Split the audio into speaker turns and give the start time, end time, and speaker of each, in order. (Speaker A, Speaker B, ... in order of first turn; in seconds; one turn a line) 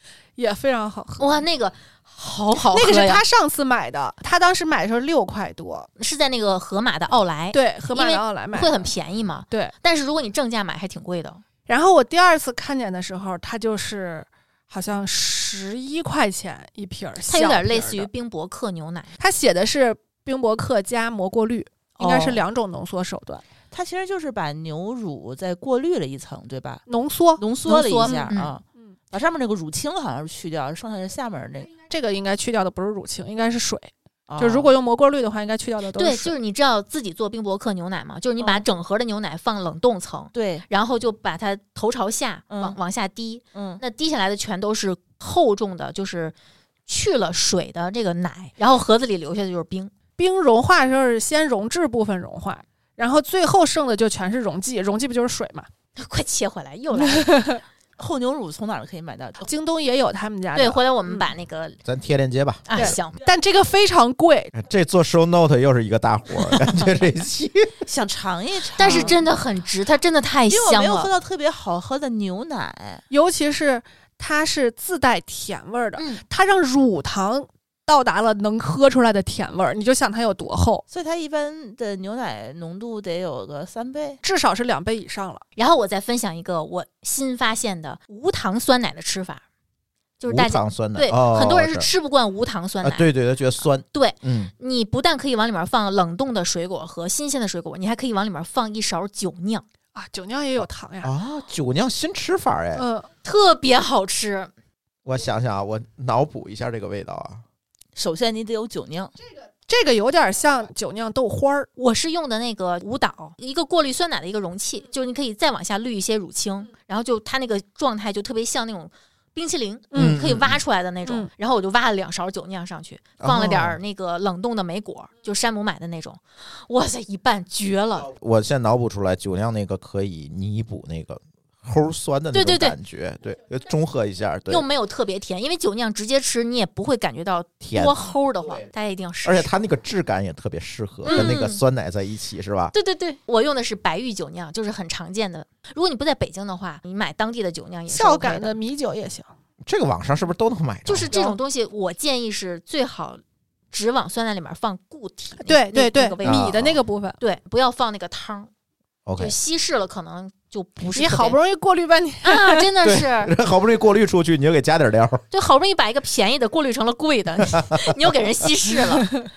Speaker A: 0.4-1.4
Speaker B: 1.2-3.2
Speaker A: 2.7-5.9
Speaker B: 6.0-11.4
Speaker A: 7.5-8.9
Speaker A: 11.7-18.1
Speaker B: 17.3-19.1
Speaker A: 19.2-23.4
Speaker B: 22.0-22.4
Speaker C: 23.7-26.9
Speaker A: 26.9-27.4
Speaker C: 27.4-31.7
Speaker B: 27.7-28.5
Speaker A: 28.0-28.9
Speaker A: 31.9-36.3
Speaker C: 34.3-34.7
Speaker B: 36.0-46.4
Speaker C: 40.3-40.6
Speaker C: 42.5-42.8
Speaker C: 43.5-43.8
Speaker B: 46.9-49.9
Speaker A: 50.2-55.7
Speaker B: 56.0-57.6
Speaker A: 57.0-57.6
Speaker C: 58.0-59.5
Speaker A: 59.4-61.3
Speaker B: 60.5-61.8
Speaker D: 61.9-62.9
Speaker B: 62.7-63.2
Speaker A: 62.8-64.5
Speaker D: 64.5-67.8
Speaker C: 67.9-69.2
Speaker B: 68.8-71.1
Speaker A: 68.8-69.2
Speaker C: 70.5-73.0
Speaker A: 73.1-80.8
Speaker B: 76.0-76.2
Speaker C: 80.9-84.2
Speaker A: 84.2-85.5
Speaker B: 85.6-89.4
Speaker B: 90.2-93.1
Speaker D: 90.3-91.9
Speaker D: 92.8-94.5
Speaker B: 93.9-99.7
Speaker A: 99.9-101.1
Speaker D: 101.0-102.9
Speaker A: 102.8-103.1
Speaker B: 103.2-104.5
Speaker D: 105.0-107.4
Speaker C: 108.0-109.1
Speaker A: 109.7-111.7
Speaker B: 111.8-128.1
Speaker A: 119.9-120.2
Speaker D: 119.9-120.6
Speaker D: 123.2-123.8
Speaker D: 128.1-134.7
Speaker B: 132.3-132.8
Speaker B: 134.5-139.5
Speaker D: 137.6-138.0
Speaker D: 139.2-142.7
Speaker B: 141.1-141.6
Speaker B: 142.7-148.6
Speaker A: 147.9-149.3
Speaker D: 149.7-151.1
Speaker B: 150.8-156.6
Speaker A: 151.1-151.4
Speaker A: 155.4-157.2
Speaker D: 156.2-156.8
Speaker B: 157.2-158.5
Speaker D: 159.1-159.3
Speaker B: 159.2-161.4
Speaker A: 160.9-162.7
Speaker B: 162.2-163.3
Speaker D: 162.8-165.2
Speaker B: 165.3-169.1